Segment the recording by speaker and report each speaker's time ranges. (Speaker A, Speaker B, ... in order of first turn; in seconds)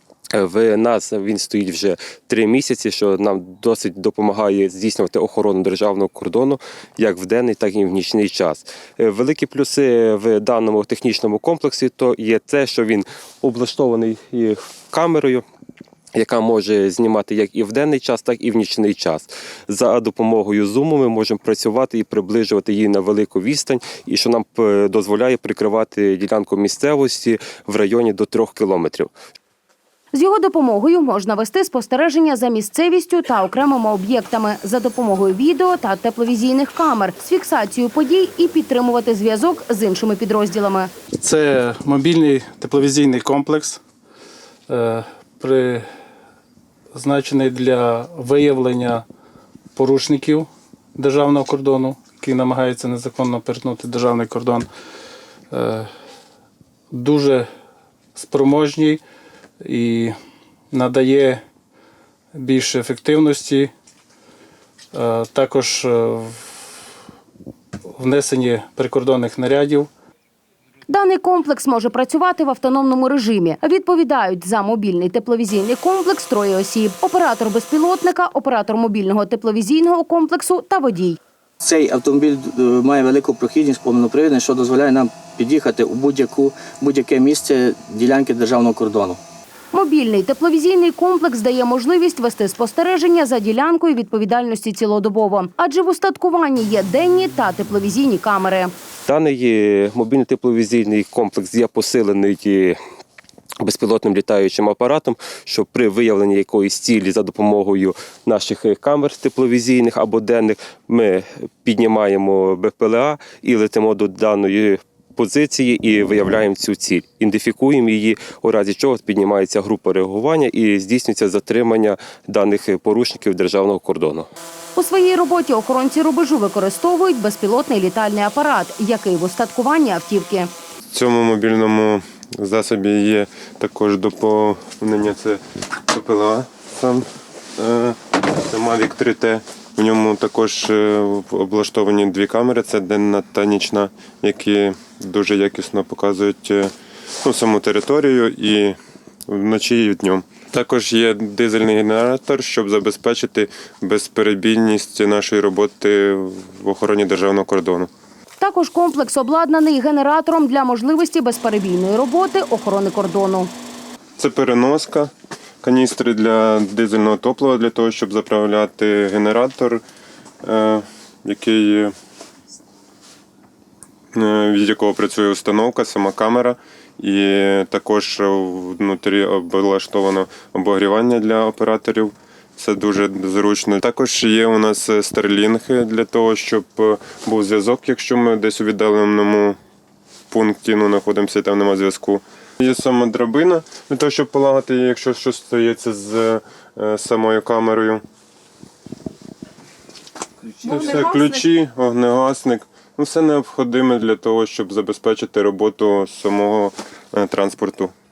Speaker A: 0.3-15.4, 16.1-29.1, 99.1-102.8, 103.6-124.3
Speaker B: 30.1-40.9, 70.9-81.2, 89.7-98.7, 124.8-130.5, 158.4-163.5, 200.7-201.3
Speaker C: 41.2-43.8, 44.7-45.9, 47.0-49.0, 49.8-54.7, 55.5-55.9, 56.9-57.5, 58.1-59.0, 59.6-60.1, 60.7-61.4, 62.3-63.7, 64.9-66.5, 68.0-69.9
Speaker D: 81.6-89.2
Speaker E: 130.9-137.1, 137.6-148.8, 149.3-157.9, 164.2-165.1, 165.6-169.8, 170.4-171.9, 174.1-189.6, 190.3-198.0, 200.6-207.9